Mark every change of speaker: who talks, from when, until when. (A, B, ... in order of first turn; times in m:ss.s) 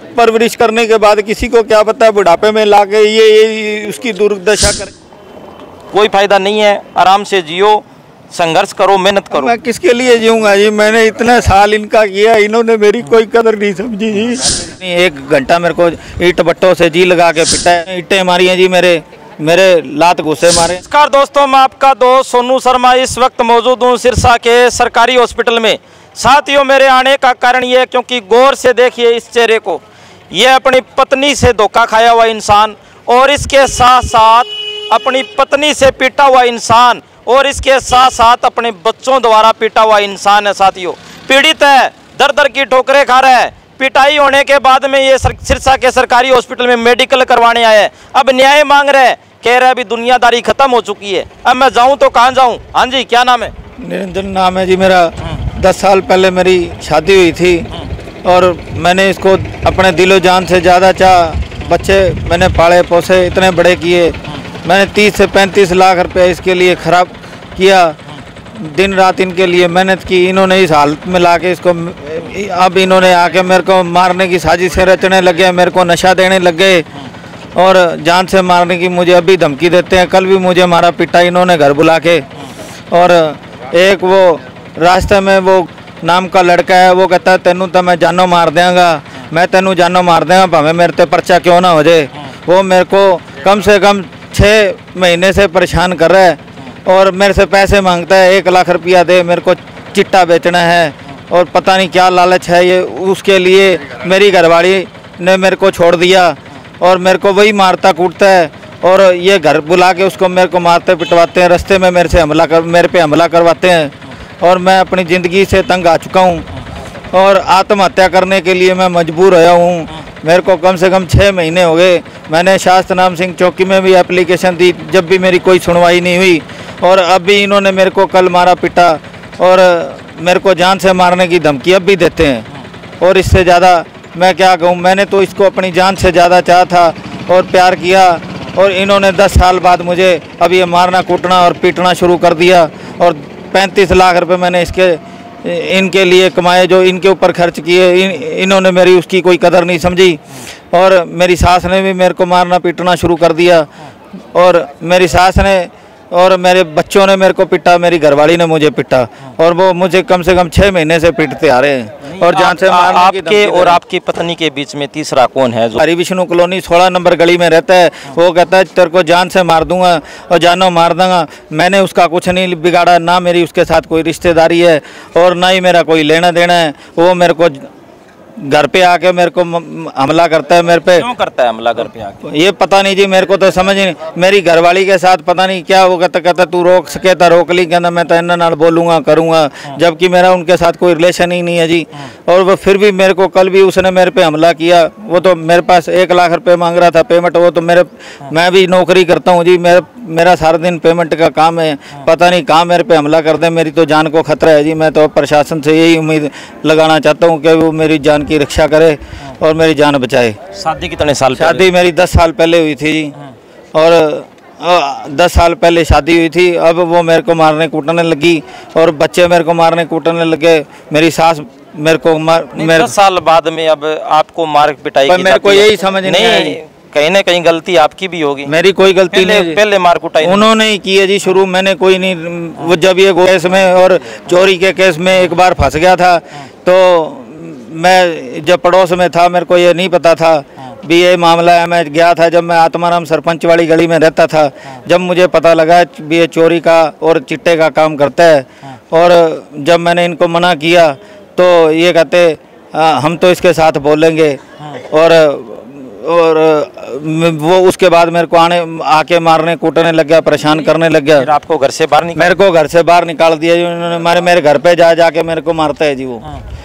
0:00.2-0:04.9 A
0:05.9-0:09.5 B
0:09.3-0:20.8 A
0:20.8-0:53.5 B
0:53.8-0:57.7 A
0:58.2-1:08.0 A
1:08.5-1:16.8 A
1:17.6-1:22.2 A
1:22.9-1:56.4 A
1:57.1-2:12.4 A
2:13.0-2:30.2 A
2:30.7-2:33.7 A
2:34.3-2:43.8 A
2:42.1-2:45.8 B
2:45.8-2:57.7 A
2:58.4-3:01.0 A
3:01.0-3:02.2 B
3:02.2-3:30.4 A
3:30.5-3:31.6 B
3:31.4-3:33.1 A
3:33.7-3:42.9 A
3:42.5-3:48.5 B
3:45.1-3:46.6 A
3:48.5-3:49.6 A
3:49.1-3:50.5 B
3:50.2-4:21.3 A
4:21.2-4:22.4 B
4:22.2-4:26.2 A